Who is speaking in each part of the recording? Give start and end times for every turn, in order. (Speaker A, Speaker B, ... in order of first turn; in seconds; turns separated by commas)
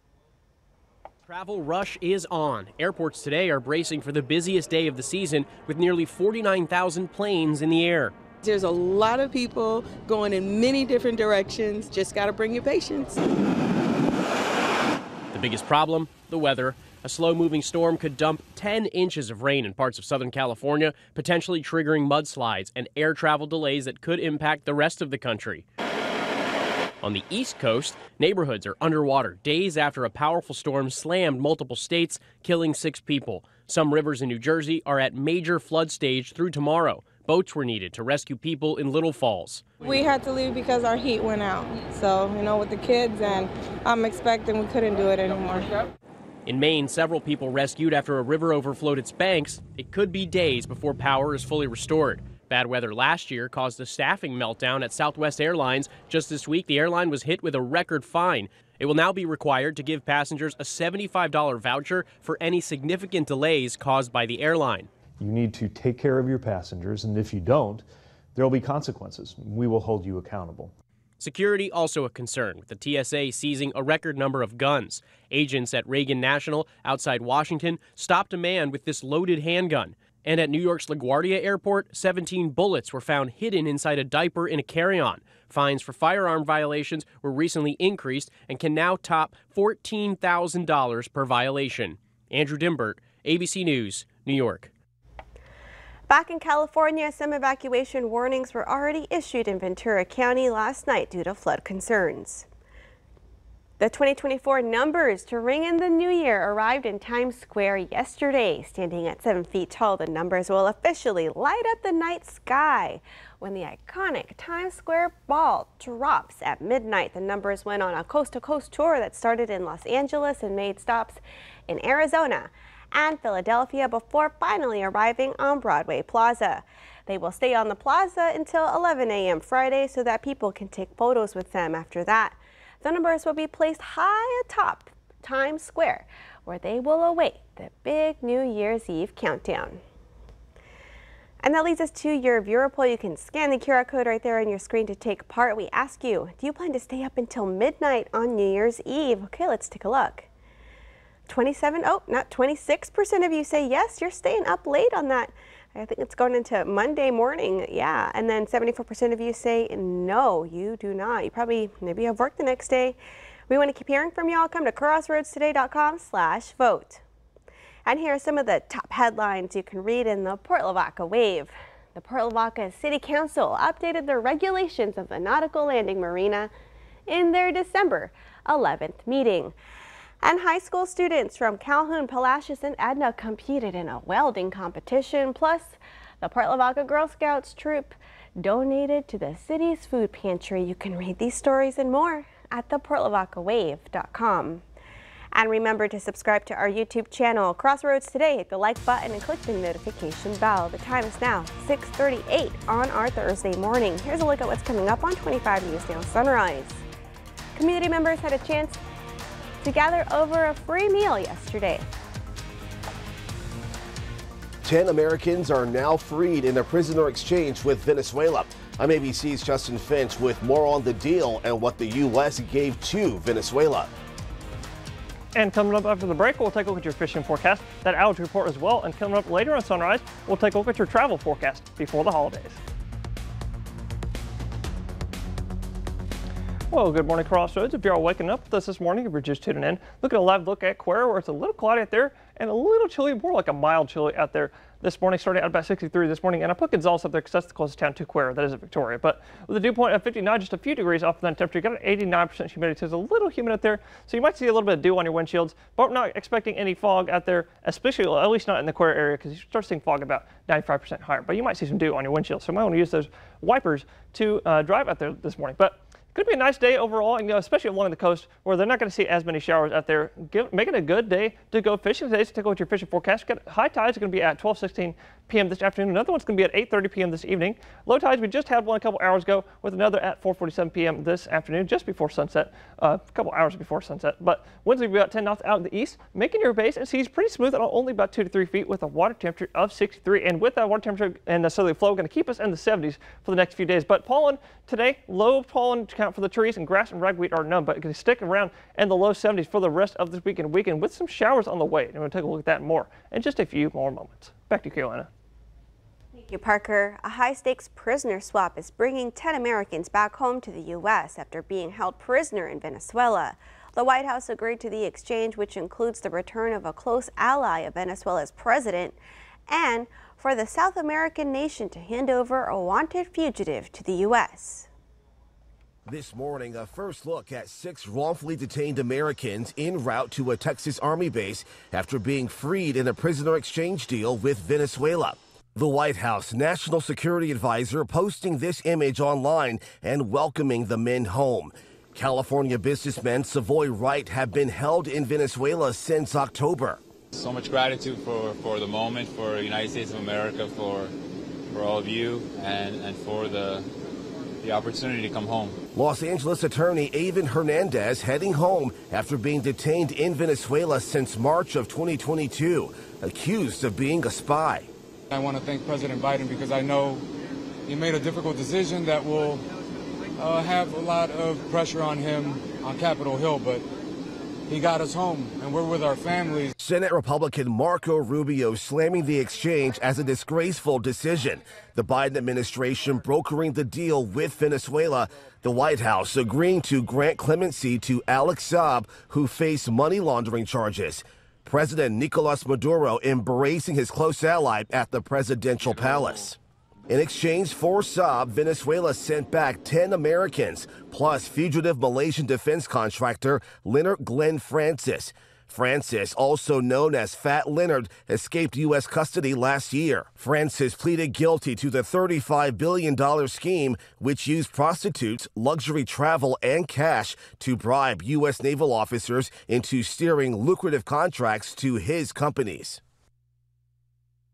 Speaker A: 1.3-8.2, Speaker B: 8.4-13.2, Speaker A: 15.3-25.6, Speaker A: 27.0-39.7, Speaker C: 39.8-45.8, Speaker A: 46.5-64.9, Speaker D: 65.2-70.7, Speaker A: 71.2-94.7, Speaker E: 96.1-102.5, Speaker E: 103.8-139.8, Speaker E: 141.4-150.3, Speaker E: 151.3-163.0, Speaker E: 163.5-167.0, Speaker E: 167.9-176.5, Speaker E: 177.1-179.5, Speaker E: 180.2-194.6, Speaker E: 195.3-206.8, Speaker E: 207.6-208.8, Speaker E: 209.6-211.8, Speaker F: 214.6-223.9, Speaker G: 225.3-232.6, Speaker G: 236.7-305.1, Speaker E: 306.1-319.0, Speaker E: 319.5-324.7, Speaker F: 325.9-346.8, Speaker H: 347.1-350.9, Speaker H: 351.5-353.7, Speaker H: 354.4-355.6, Speaker F: 355.8-364.7, Speaker I: 365.1-367.1, Speaker I: 367.7-369.4, Speaker I: 370.2-373.7, Speaker I: 374.5-376.5, Speaker F: 376.6-396.4, Speaker F: 396.9-422.8